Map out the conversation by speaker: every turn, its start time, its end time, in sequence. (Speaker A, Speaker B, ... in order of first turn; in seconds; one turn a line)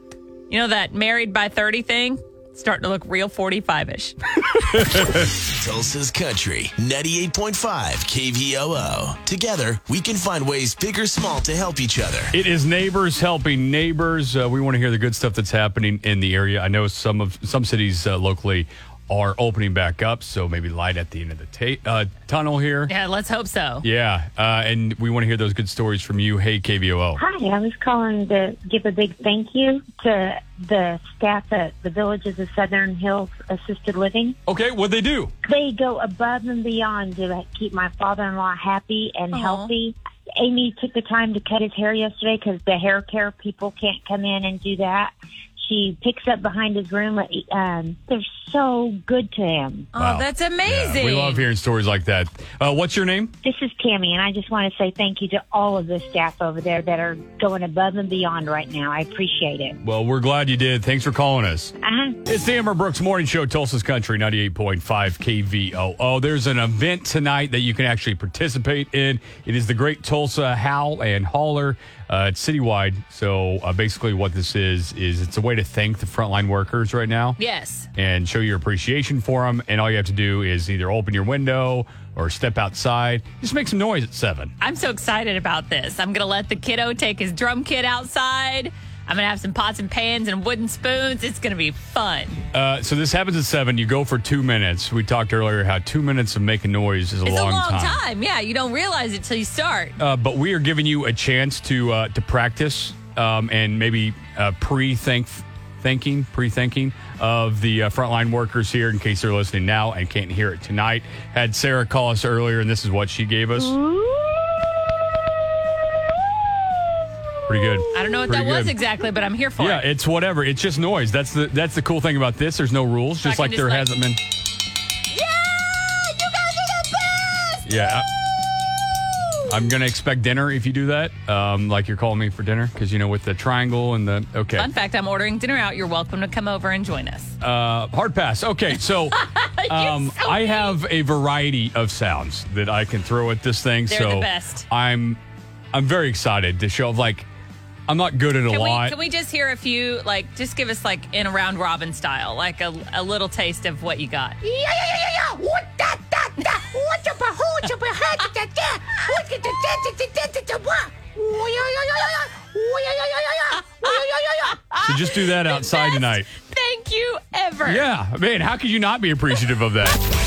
Speaker A: 0.5-4.8
Speaker B: 4.7-5.3
Speaker C: 5.2-12.3
Speaker B: 12.3-22.9
Speaker A: 22.9-23.9
Speaker B: 23.8-27.2
Speaker D: 27.2-34.4
Speaker B: 34.5-35.3
Speaker D: 35.4-49.9
Speaker A: 39.3-39.7
Speaker A: 49.9-51.5
Speaker B: 50.0-53.3
Speaker D: 53.4-59.8
Speaker B: 59.8-61.7
Speaker D: 61.8-62.2
Speaker B: 62.3-77.4
Speaker A: 77.4-77.9
Speaker B: 78.0-84.5
Speaker A: 84.6-92.4
Speaker B: 92.5-98.0
Speaker A: 97.2-100.0
Speaker B: 100.0-113.8
Speaker B: 117.5-118.8
Speaker A: 117.9-119.8
Speaker B: 119.6-124.2
Speaker A: 123.2-123.9
Speaker A: 125.1-129.4
Speaker B: 127.6-128.1
Speaker B: 129.5-134.7
Speaker A: 134.6-137.3
Speaker B: 137.4-145.2
Speaker A: 139.1-140.8
Speaker A: 143.9-144.7
Speaker B: 145.7-147.3
Speaker B: 147.9-149.0
Speaker A: 148.5-154.4
Speaker A: 156.4-156.9
Speaker A: 157.6-158.3
Speaker A: 163.6-167.8
Speaker B: 164.8-166.3
Speaker B: 167.6-170.0